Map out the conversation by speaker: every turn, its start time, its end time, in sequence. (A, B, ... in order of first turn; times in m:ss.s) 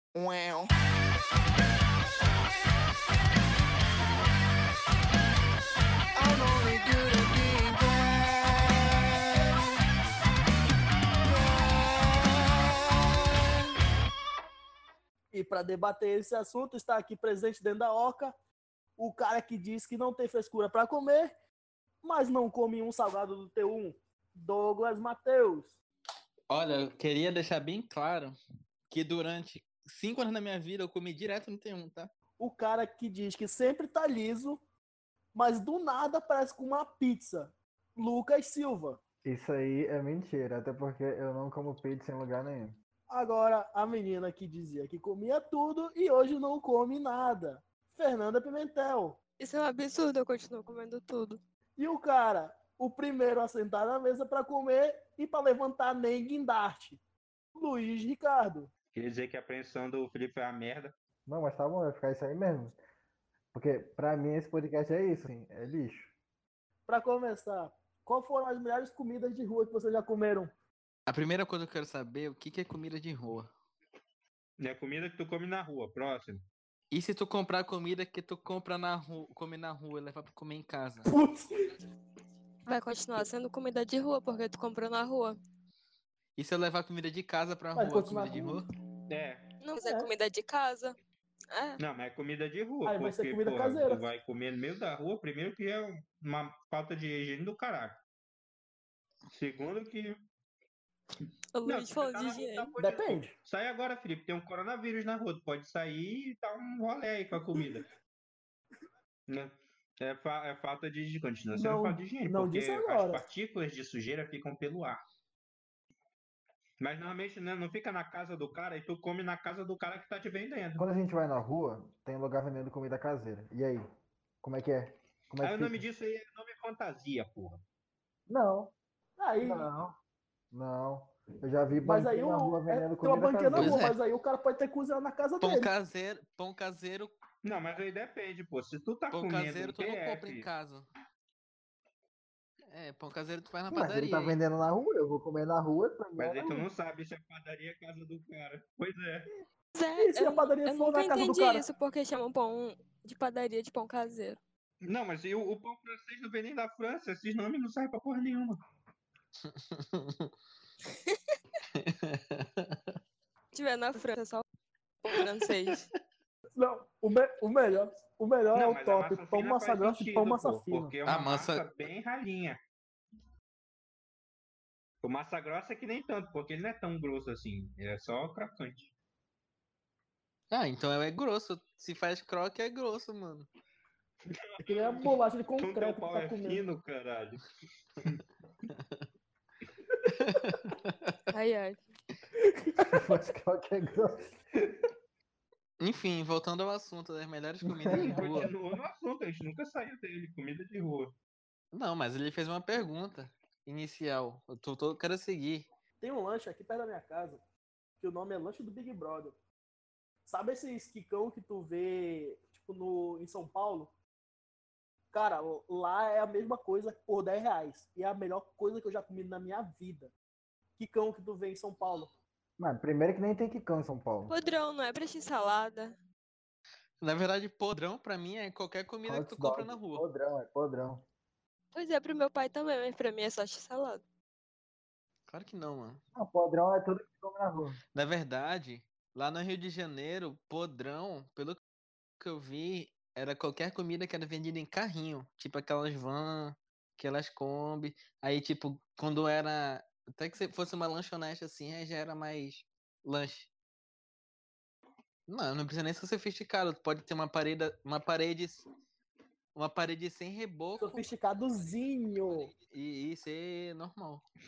0:00.1-0:00.7 A
0:06.2-0:08.9 A
0:11.2-0:12.3 A
0:15.3-0:18.3 B
0:19.0-0:21.3 B
0:22.0-0:25.7 B
0:26.5-0:28.4 C
0:28.9-0:32.1 C
0:32.4-0:34.6 B
0:35.3-0:39.0 B
0:39.2-0:42.8 D
0:43.1-0:49.2 B
0:49.4-0:51.4 E
0:51.8-0:57.0 B
0:57.5-0:58.7 B
0:58.9-1:00.9 F
1:01.2-1:02.8 D
1:03.5-1:06.1 D
1:06.9-1:10.5 B
1:11.1-1:13.5 C
1:14.6-1:16.4 F
1:16.9-1:21.1 C
1:21.0-1:21.5 B
1:22.7-1:25.4 E
1:26.4-1:28.6 C
1:27.7-1:28.6 B
1:29.1-1:29.5 F
1:29.6-1:31.0 E
1:29.8-1:30.1 B
1:31.5-1:31.8 E
1:31.8-1:38.0 F
1:32.8-1:34.1 B
1:39.3-1:40.2 F
1:41.5-1:42.7 E
1:41.6-1:47.9 F
1:42.8-1:43.3 B
1:49.3-1:55.0 F
1:51.5-1:53.2 B
1:56.8-2:00.9 F
2:00.8-2:03.9 D
2:04.4-2:05.8 D
2:05.4-2:07.6 F
2:08.3-2:08.7 D
2:09.2-2:09.7 B
2:09.4-2:10.0 D
2:10.5-2:13.8 D
2:11.8-2:15.7 B
2:13.6-2:14.0 C
2:15.4-2:17.1 C
2:17.4-2:20.5 F
2:19.1-2:20.9 C
2:22.7-2:24.4 C
2:23.7-2:26.7 D
2:26.2-2:29.3 F
2:29.7-2:34.4 E
2:30.0-2:31.7 B
2:34.8-2:38.6 F
2:39.5-2:40.3 C
2:40.8-2:41.4 E
2:41.7-2:42.9 C
2:43.5-2:44.4 E
2:45.0-2:45.9 E
2:46.5-2:51.0 B
2:48.5-2:52.6 F
2:51.0-2:51.6 C
2:55.0-2:58.9 F
3:00.5-3:03.5 C
3:04.2-3:07.4 F
3:04.6-3:06.6 B
3:10.0-3:10.3 B
3:10.1-3:11.2 C
3:11.3-3:11.8 E
3:12.4-3:13.0 B
3:12.9-3:14.3 D
3:15.8-3:18.5 C
3:17.7-3:18.5 D
3:17.9-3:21.1 F
3:21.7-3:25.7 C
3:26.0-3:27.4 B
3:28.0-3:29.4 B
3:30.2-3:33.9 B
3:35.1-3:40.1 B
3:40.8-3:42.1 B
3:42.6-3:44.3 D
3:44.3-3:45.9 E
3:47.0-3:50.0 C
3:49.0-3:51.0 D
3:51.7-3:54.0 E
3:55.3-3:56.0 C
3:56.1-3:57.8 D
3:57.9-4:01.6 C
4:02.2-4:13.5 C
4:15.3-4:18.6 C
4:19.5-4:21.0 C
4:20.8-4:22.5 B
4:22.7-4:24.2 C